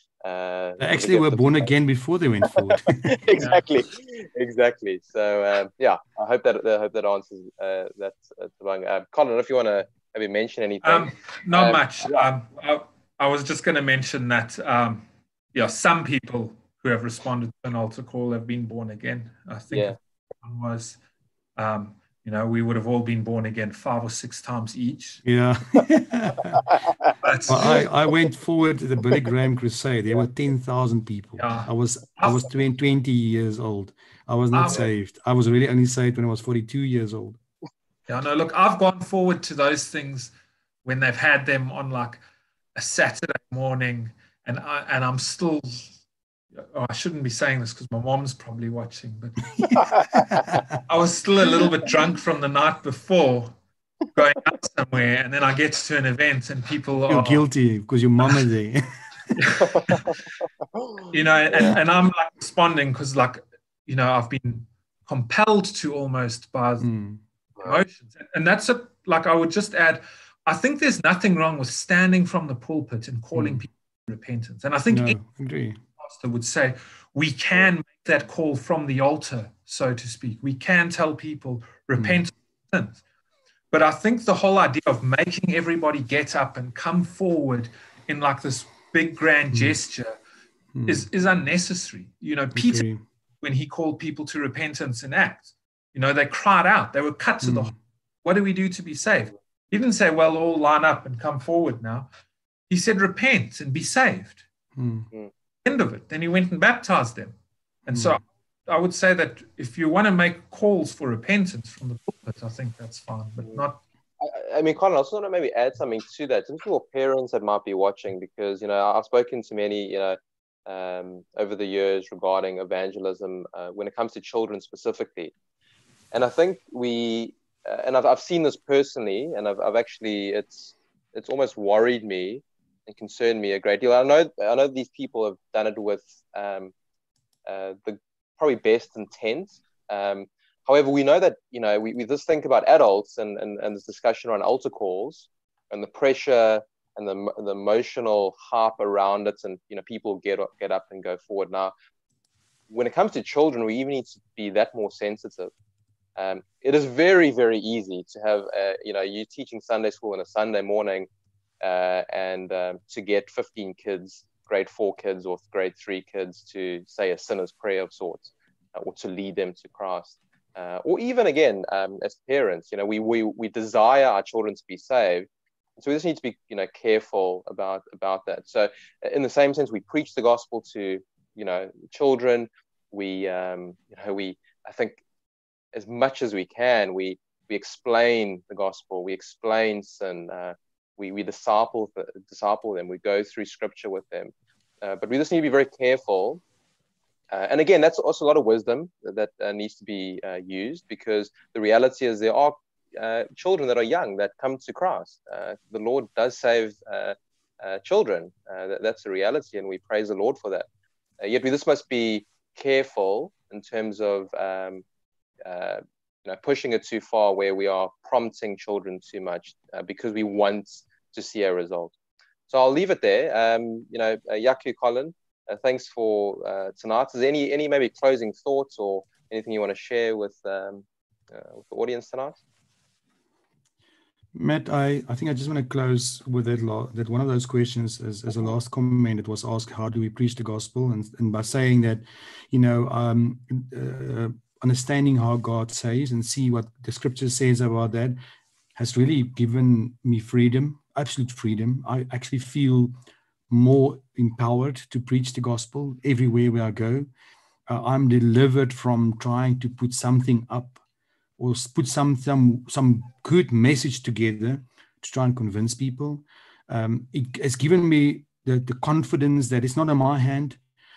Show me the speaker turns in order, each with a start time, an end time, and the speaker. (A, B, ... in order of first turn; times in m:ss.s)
0:00.2-0:01.7 A
0:00.8-0:03.2 B
0:02.5-0:12.3 A
0:10.8-0:21.0 C
0:19.7-0:20.0 A
0:21.6-0:25.2 C
0:25.2-0:26.6 B
0:27.2-0:27.8 C
0:27.5-0:37.4 B
0:31.4-0:32.5 C
0:34.5-0:34.9 C
0:38.1-0:40.3 C
0:40.8-0:42.2 C
0:42.8-0:46.0 C
0:46.6-0:53.6 C
0:50.3-0:50.6 B
0:54.1-0:57.4 C
0:57.1-0:59.4 B
0:59.4-1:00.2 C
1:01.0-1:06.9 C
1:06.8-1:07.2 B
1:07.6-1:15.2 C
1:13.4-1:13.6 B
1:14.9-1:15.8 B
1:16.0-1:23.0 C
1:23.7-1:30.1 C
1:30.8-1:31.0 B
1:30.9-1:32.8 C
1:32.6-1:33.0 B
1:33.4-1:42.1 C
1:37.4-1:37.7 B
1:42.7-1:44.4 C
1:44.8-1:45.1 B
1:45.6-1:47.3 C
1:47.9-1:53.8 C
1:47.9-1:48.2 B
1:54.2-2:05.3 A
2:06.1-2:16.7 A
2:17.5-2:31.7 A
2:32.7-2:35.5 A
2:36.2-2:41.1 A
2:41.6-3:05.0 A
3:05.7-3:16.4 A
3:17.3-3:30.7 A
3:31.2-3:34.8 A
3:35.4-3:41.9 A
3:42.5-3:52.4 A
3:54.3-4:08.2 B
4:08.8-4:12.9 B
4:13.5-4:17.1 B
4:17.7-4:20.8 B
4:21.4-4:30.6 B